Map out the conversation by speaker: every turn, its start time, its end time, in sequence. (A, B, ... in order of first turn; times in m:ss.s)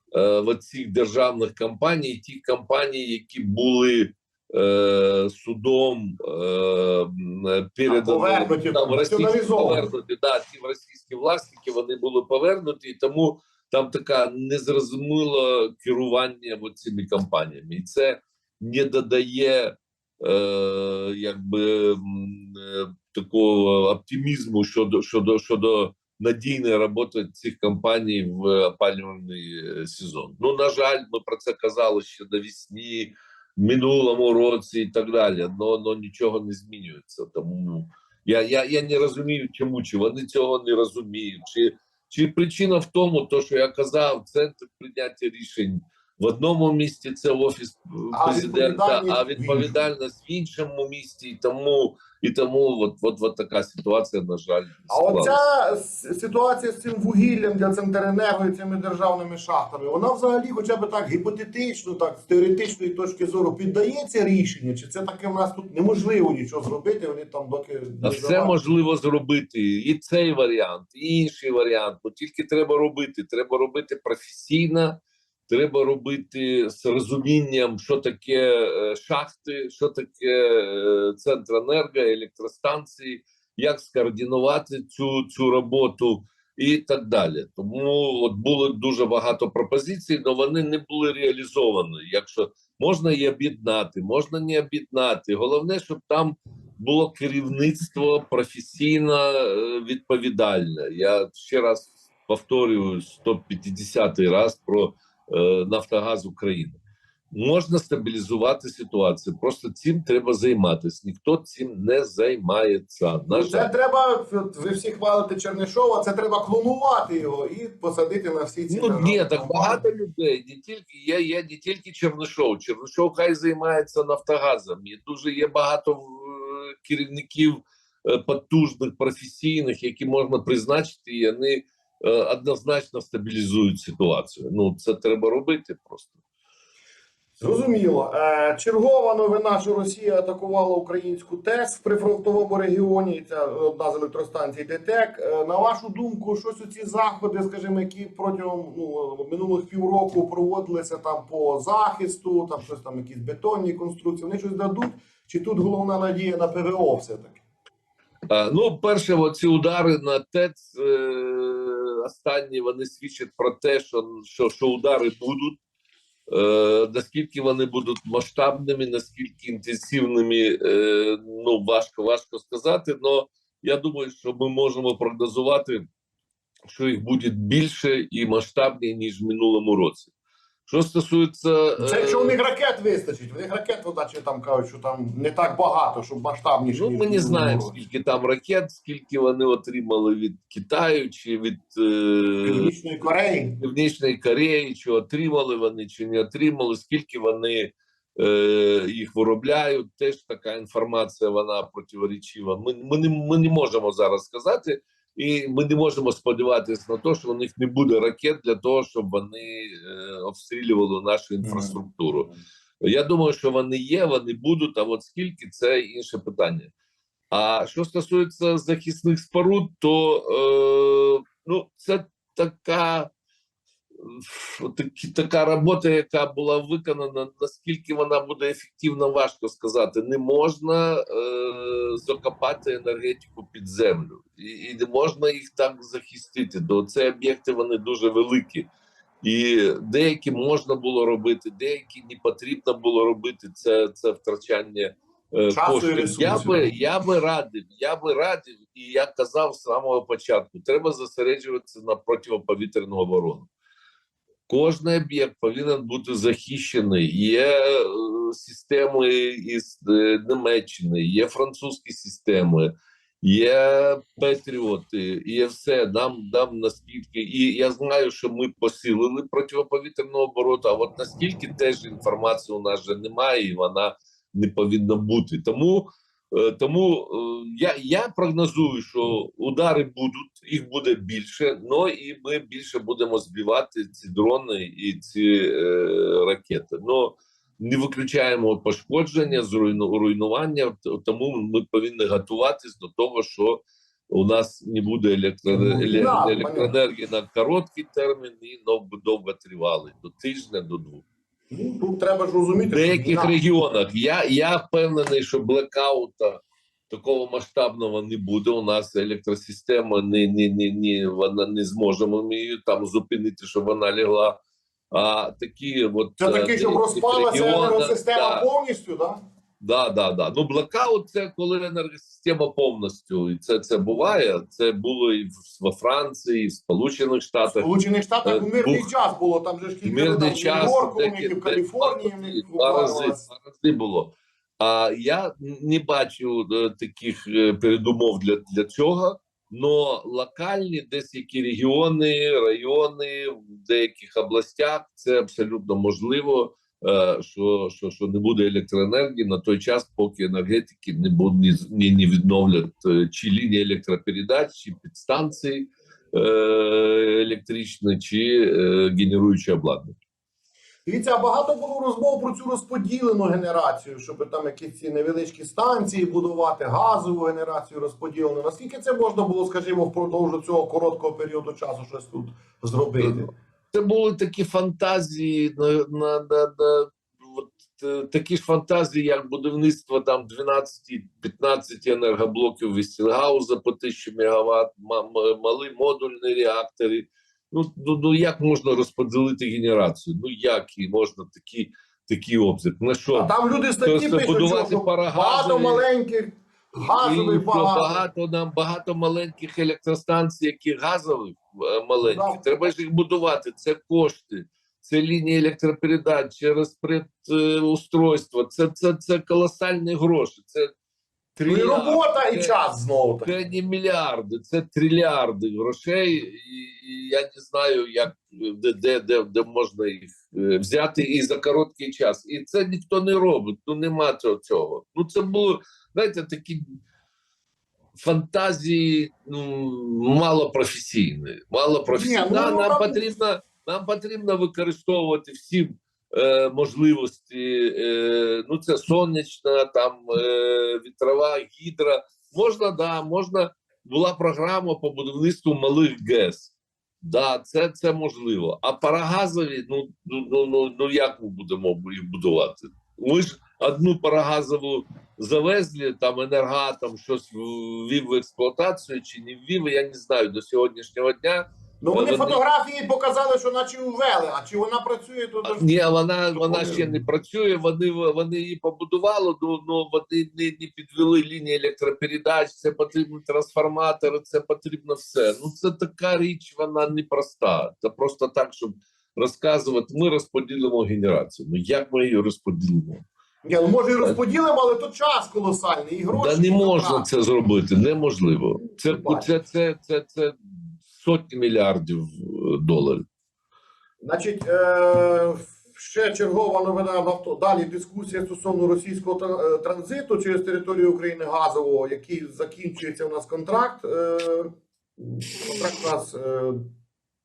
0:00.1-0:55.4 A
0:07.9-0:09.9 B
0:48.1-0:49.8 B
0:54.9-1:08.7 B
1:08.0-1:46.8 A
1:47.3-1:53.7 A
1:53.3-1:59.8 B
1:58.7-2:16.2 A
2:17.4-2:37.4 B
2:38.3-2:45.6 A
2:46.3-2:55.9 A
2:56.7-3:00.1 A
3:00.7-3:02.4 A
3:01.8-3:07.8 B
3:06.7-3:12.7 A
3:12.4-3:13.6 B
3:13.6-3:32.3 A
3:31.4-3:31.8 B
3:32.8-3:36.7 A
3:37.3-3:43.1 A
3:44.0-3:58.7 A
3:59.2-4:13.5 A
4:05.5-4:06.8 B
4:14.5-5:01.0 A
4:55.5-4:56.7 B
5:01.5-5:03.4 B
5:02.7-5:14.4 A
5:14.9-5:18.5 A
5:16.2-5:19.2 B
5:19.6-5:27.7 A
5:27.4-5:33.2 B
5:28.2-5:28.9 A
5:29.8-6:00.0 A
6:00.9-6:13.3 B
6:13.7-6:33.3 A
6:33.1-6:38.0 B
6:33.8-6:35.9 A
6:36.8-6:50.7 A
6:42.0-6:42.7 B
6:51.4-6:52.6 A
6:51.4-6:53.3 B
6:53.2-7:06.8 A
7:08.0-7:42.4 A
7:11.9-7:13.1 B
7:41.8-7:45.7 B
7:45.4-8:03.0 A
7:46.3-7:47.0 B
8:03.4-8:07.1 B
8:06.2-8:13.0 A
8:08.8-8:09.3 B
8:14.0-8:26.6 B